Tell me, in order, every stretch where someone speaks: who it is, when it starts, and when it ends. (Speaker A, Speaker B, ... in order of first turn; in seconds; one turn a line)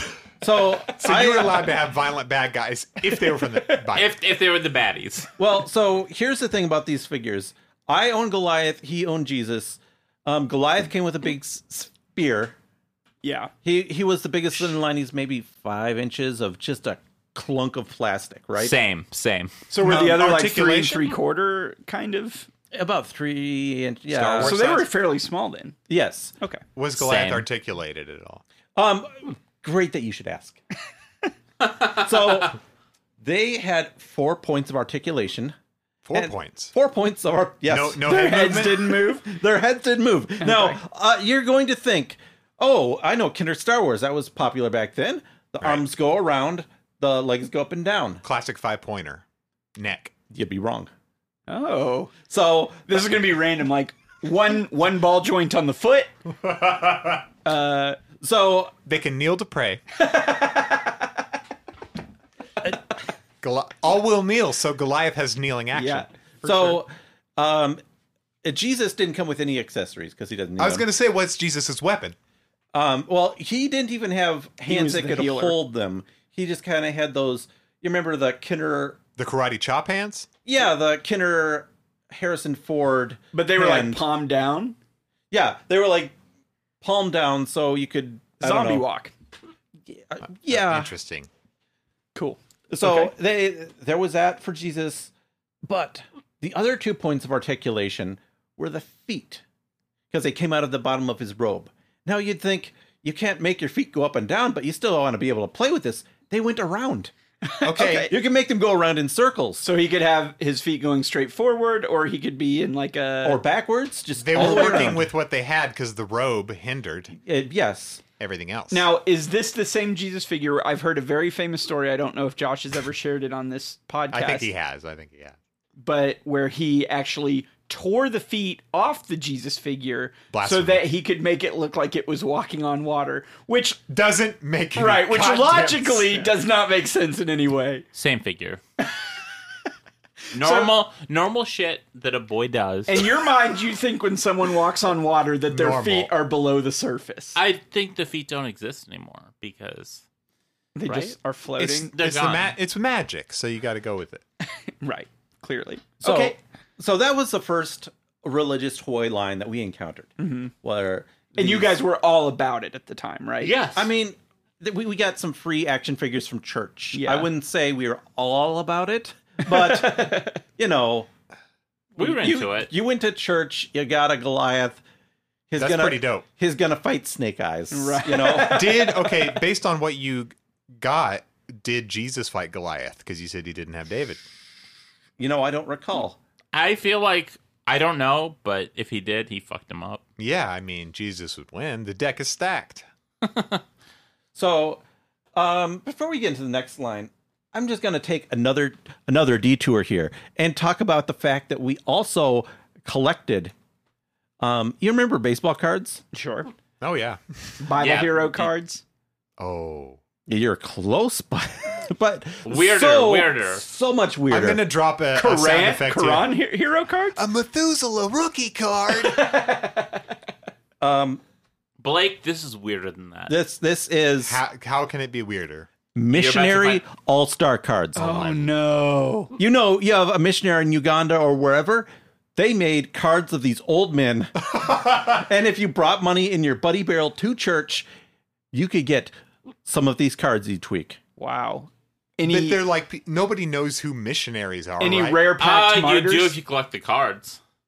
Speaker A: 0.4-1.6
Speaker B: 1.0-4.1
Speaker C: 3.3-3.9
Speaker D: 4.0-5.3
Speaker A: 5.4-12.6
Speaker C: 13.2-13.5
Speaker A: 13.6-18.8
Speaker D: 18.6-19.5
Speaker C: 19.7-22.5
Speaker B: 19.8-21.1
Speaker A: 22.7-24.8
Speaker B: 24.1-24.9
Speaker C: 24.4-25.8
Speaker A: 25.9-26.3
Speaker B: 26.8-28.4
Speaker D: 27.0-27.4
Speaker A: 28.8-30.6
Speaker A: 31.7-32.6
Speaker A: 33.2-35.5
Speaker B: 36.0-36.7
Speaker A: 36.1-48.2
Speaker B: 37.7-38.9
Speaker C: 38.0-39.3
Speaker C: 40.4-40.8
Speaker B: 45.6-45.9
Speaker B: 48.2-49.2
Speaker B: 49.8-50.1
Speaker A: 50.3-50.9
Speaker C: 51.5-52.1
Speaker A: 52.3-52.9
Speaker C: 52.9-56.1
Speaker B: 56.5-57.1
Speaker C: 57.5-58.0
Speaker A: 58.2-58.7
Speaker B: 58.9-59.8
Speaker C: 60.0-60.9
Speaker B: 63.4-66.8
Speaker C: 65.7-66.1
Speaker A: 66.4-67.8
Speaker A: 68.4-70.9
Speaker B: 70.6-72.2
Speaker A: 72.7-79.0
Speaker C: 74.7-75.6
Speaker B: 79.2-80.3
Speaker A: 80.5-84.0
Speaker C: 83.3-84.8
Speaker A: 85.3-86.2
Speaker A: 86.8-88.8
Speaker C: 88.4-89.1
Speaker A: 89.9-90.9
Speaker B: 90.3-91.3
Speaker C: 92.2-93.1
Speaker A: 92.7-95.1
Speaker A: 95.7-99.4
Speaker A: 100.1-107.1
Speaker C: 107.5-108.1
Speaker B: 107.6-108.1
Speaker A: 107.8-109.6
Speaker C: 109.6-113.4
Speaker A: 113.2-115.1
Speaker B: 114.2-117.2
Speaker C: 114.3-114.9
Speaker A: 117.2-118.0
Speaker B: 118.2-118.9
Speaker C: 118.7-124.5
Speaker B: 124.1-125.4
Speaker C: 125.8-133.8
Speaker B: 130.3-130.9
Speaker B: 133.9-136.3
Speaker C: 134.8-137.9
Speaker D: 137.9-138.6
Speaker D: 140.3-143.1
Speaker C: 140.4-140.7
Speaker C: 142.9-147.4
Speaker B: 145.5-146.1
Speaker D: 147.4-150.0
Speaker C: 150.8-151.9
Speaker D: 150.9-151.2
Speaker B: 151.6-154.2
Speaker D: 151.9-152.5
Speaker C: 154.8-156.4
Speaker A: 156.0-161.8
Speaker C: 160.2-160.5
Speaker C: 161.4-163.5
Speaker D: 163.4-163.9
Speaker A: 163.8-171.1
Speaker C: 166.9-167.3
Speaker C: 169.4-170.3
Speaker D: 172.0-172.7
Speaker A: 172.0-174.8
Speaker C: 172.0-172.4
Speaker A: 175.5-178.8
Speaker B: 175.6-176.2
Speaker C: 177.7-179.2
Speaker B: 178.3-184.2
Speaker A: 185.2-186.2
Speaker D: 186.5-190.0
Speaker B: 190.2-192.9
Speaker D: 193.2-193.6
Speaker A: 194.3-194.8
Speaker A: 195.3-203.5
Speaker A: 204.4-206.0
Speaker C: 206.1-206.5
Speaker B: 206.8-207.2
Speaker C: 207.6-208.8
Speaker D: 207.8-208.5
Speaker B: 209.4-210.0
Speaker A: 210.3-214.6
Speaker D: 212.5-213.6
Speaker B: 214.3-216.3
Speaker C: 215.1-217.2
Speaker B: 217.2-219.3
Speaker C: 219.0-220.0
Speaker A: 220.8-221.2
Speaker D: 221.8-223.4
Speaker A: 223.3-224.4
Speaker B: 224.2-225.7
Speaker A: 225.9-228.3
Speaker D: 226.1-226.8
Speaker C: 228.0-229.4
Speaker B: 228.1-228.4
Speaker A: 229.4-237.9
Speaker B: 234.6-235.0
Speaker A: 238.5-239.1
Speaker A: 239.7-241.0
Speaker C: 241.2-242.6
Speaker B: 242.3-245.2
Speaker C: 244.8-246.4
Speaker D: 245.4-247.4